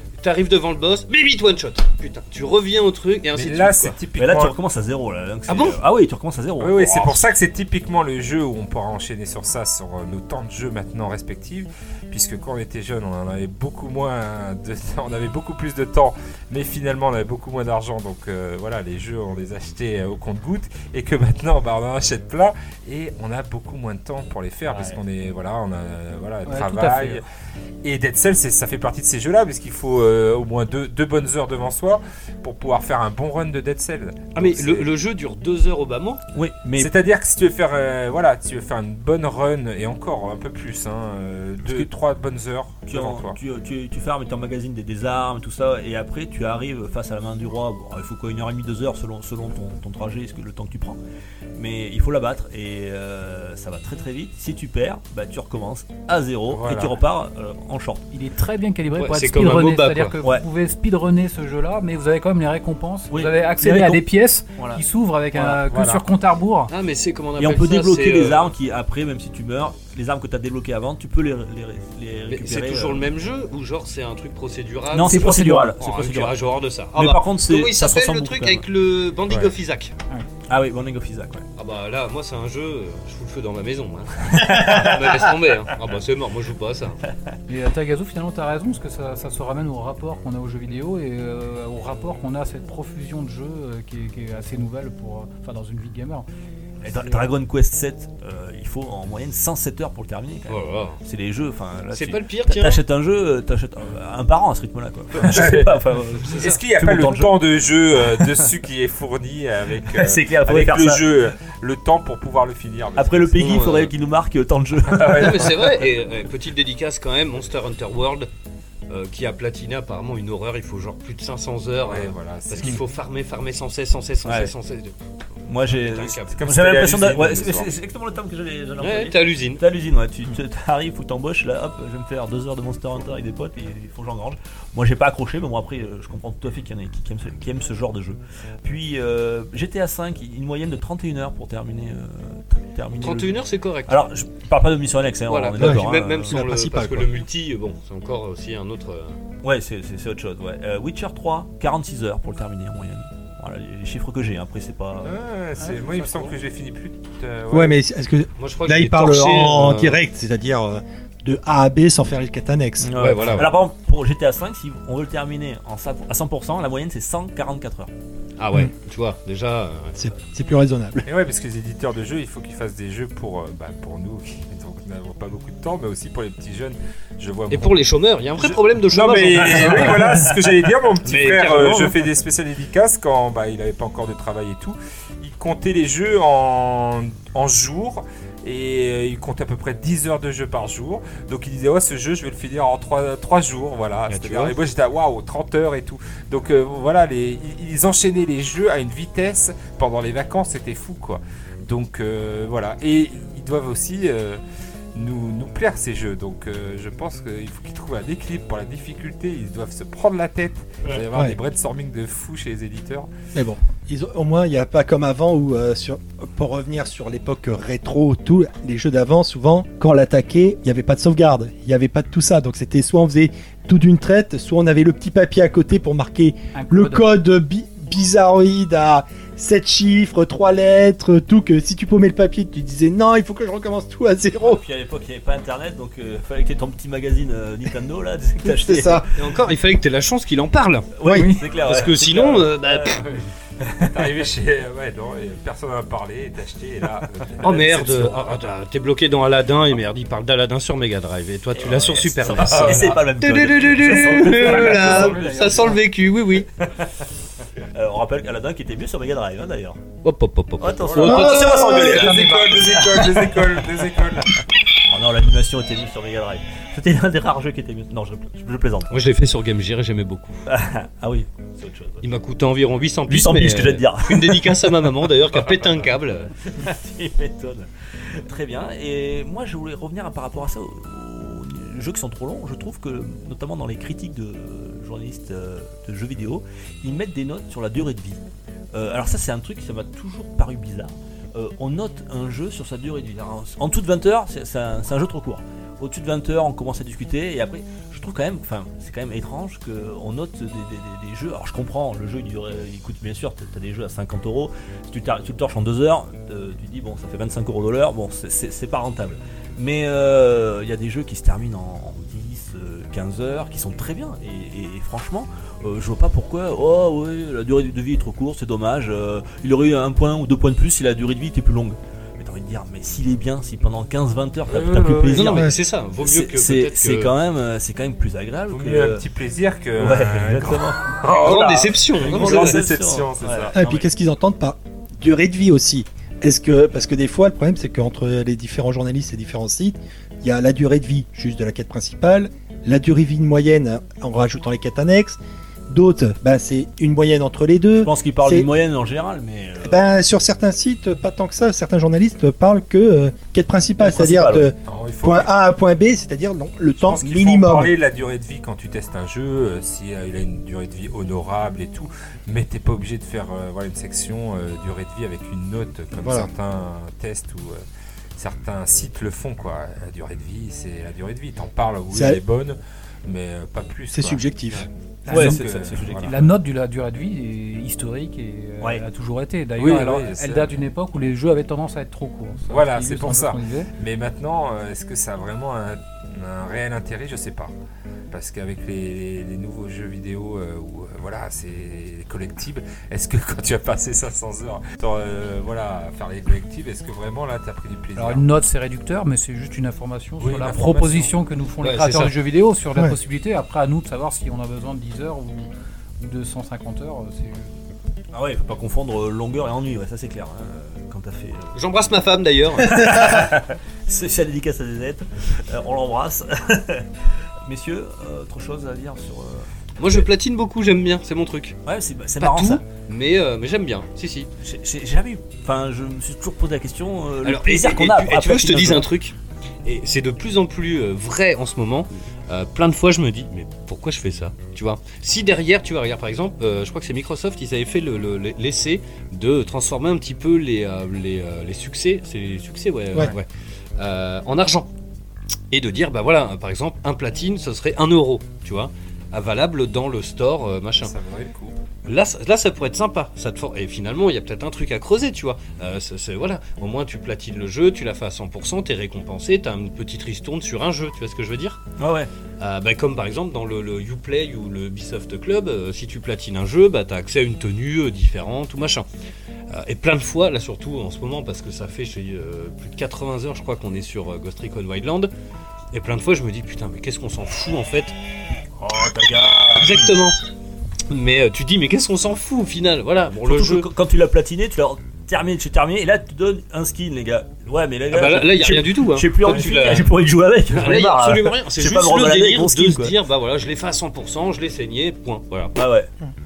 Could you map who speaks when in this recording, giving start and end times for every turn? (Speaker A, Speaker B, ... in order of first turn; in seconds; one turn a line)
Speaker A: 0.2-4.0
Speaker B: 3.3-4.6
Speaker C: 4.2-7.2
Speaker A: 5.5-5.8
Speaker B: 6.6-27.2
Speaker C: 24.7-25.0
Speaker D: 26.4-27.2
Speaker B: 27.8-34.9
Speaker A: 34.4-36.2
Speaker C: 36.3-36.9
Speaker B: 36.8-43.4
Speaker C: 41.6-41.9
Speaker C: 42.9-51.0
Speaker C: 51.6-58.1
Speaker B: 56.5-57.0
Speaker D: 58.1-66.7
Speaker A: 59.0-60.2
Speaker C: 63.1-64.8
Speaker B: 65.7-66.0
Speaker A: 66.7-68.5
Speaker C: 67.4-73.1
Speaker A: 72.3-80.0
Speaker C: 74.9-76.4
Speaker D: 75.1-75.7
Speaker C: 76.9-78.6
Speaker C: 80.5-81.5
Speaker A: 81.6-87.0
Speaker C: 84.3-85.3
Speaker D: 87.5-96.3
Speaker C: 96.8-107.4
Speaker D: 96.9-97.3
Speaker A: 100.5-101.0
Speaker A: 101.9-102.8
Speaker B: 105.2-105.8
Speaker A: 106.2-106.6
Speaker B: 106.3-113.7
Speaker C: 108.2-108.5
Speaker C: 109.9-111.1
Speaker C: 113.0-115.6
Speaker A: 113.4-113.9
Speaker B: 114.9-115.7
Speaker A: 115.1-118.3
Speaker A: 118.9-125.0
Speaker B: 121.8-122.8
Speaker C: 124.2-124.5
Speaker C: 125.5-146.4
Speaker A: 125.7-126.4
Speaker B: 126.3-127.7
Speaker A: 128.8-129.6
Speaker A: 143.0-144.1
Speaker A: 145.3-149.2
Speaker E: 145.6-147.2
Speaker C: 149.4-155.2
Speaker B: 155.0-157.8
Speaker D: 155.6-156.3
Speaker E: 157.5-163.0
Speaker A: 158.4-160.0
Speaker C: 162.8-167.9
Speaker A: 162.9-163.6
Speaker A: 168.4-170.0
Speaker E: 170.0-171.1
Speaker B: 171.1-204.4
Speaker A: 177.5-180.0
Speaker C: 179.6-180.3
Speaker C: 181.0-182.0
Speaker A: 194.1-194.5
Speaker B: 204.9-213.1
Speaker E: 211.1-211.4
Speaker E: 213.3-234.6
Speaker D: 226.6-227.1
Speaker C: 234.4-239.2
Speaker E: 238.4-239.1
Speaker A: 239.2-240.9
Speaker C: 240.9-243.1
Speaker E: 241.1-241.3
Speaker D: 241.2-241.5
Speaker A: 241.6-243.2
Speaker B: 243.8-248.2
Speaker A: 247.4-256.5
Speaker C: 251.6-255.8
Speaker B: 252.2-253.0
Speaker B: 253.9-255.1
Speaker D: 254.2-255.8
Speaker C: 257.7-259.8
Speaker A: 260.0-262.2
Speaker C: 260.6-262.2
Speaker B: 260.8-264.4
Speaker E: 261.0-262.0
Speaker D: 261.2-263.3
Speaker C: 264.9-268.9
Speaker A: 268.9-270.4
Speaker C: 270.5-272.1
Speaker A: 272.0-276.3
Speaker C: 273.1-275.1
Speaker C: 276.4-329.1
Speaker B: 324.5-325.4
Speaker A: 325.1-327.1
Speaker E: 325.2-325.6
Speaker B: 328.5-333.8
Speaker C: 329.8-333.6
Speaker A: 331.1-332.6
Speaker E: 333.5-348.5
Speaker C: 347.8-349.8
Speaker E: 349.6-357.7
Speaker C: 353.8-354.5
Speaker B: 354.7-355.3
Speaker B: 356.8-367.6
Speaker E: 366.0-366.3
Speaker B: 368.2-376.1
Speaker E: 371.9-372.2
Speaker E: 373.9-374.7
Speaker D: 375.1-383.7
Speaker C: 375.1-376.3
Speaker B: 379.6-380.6
Speaker B: 382.5-387.5
Speaker B: 388.1-398.2
Speaker D: 398.0-407.5
Speaker B: 400.2-401.1
Speaker A: 401.6-402.1
Speaker C: 408.1-411.6
Speaker A: 411.6-413.3
Speaker C: 412.6-416.9
Speaker C: 417.5-420.1
Speaker A: 419.8-421.6
Speaker C: 421.7-422.6
Speaker A: 422.2-424.3
Speaker C: 424.4-428.9
Speaker A: 427.2-444.7
Speaker A: 445.5-450.9
Speaker B: 450.8-451.6
Speaker A: 451.9-461.6
Speaker C: 461.8-462.1
Speaker A: 462.4-468.9
Speaker A: 469.5-475.1
Speaker A: 475.7-477.9
Speaker C: 478.6-479.8
Speaker A: 479.6-480.2
Speaker A: 480.9-483.7
Speaker C: 483.2-493.0
Speaker A: 487.9-489.9
Speaker B: 489.3-489.8
Speaker A: 490.5-495.5
Speaker C: 495.6-495.9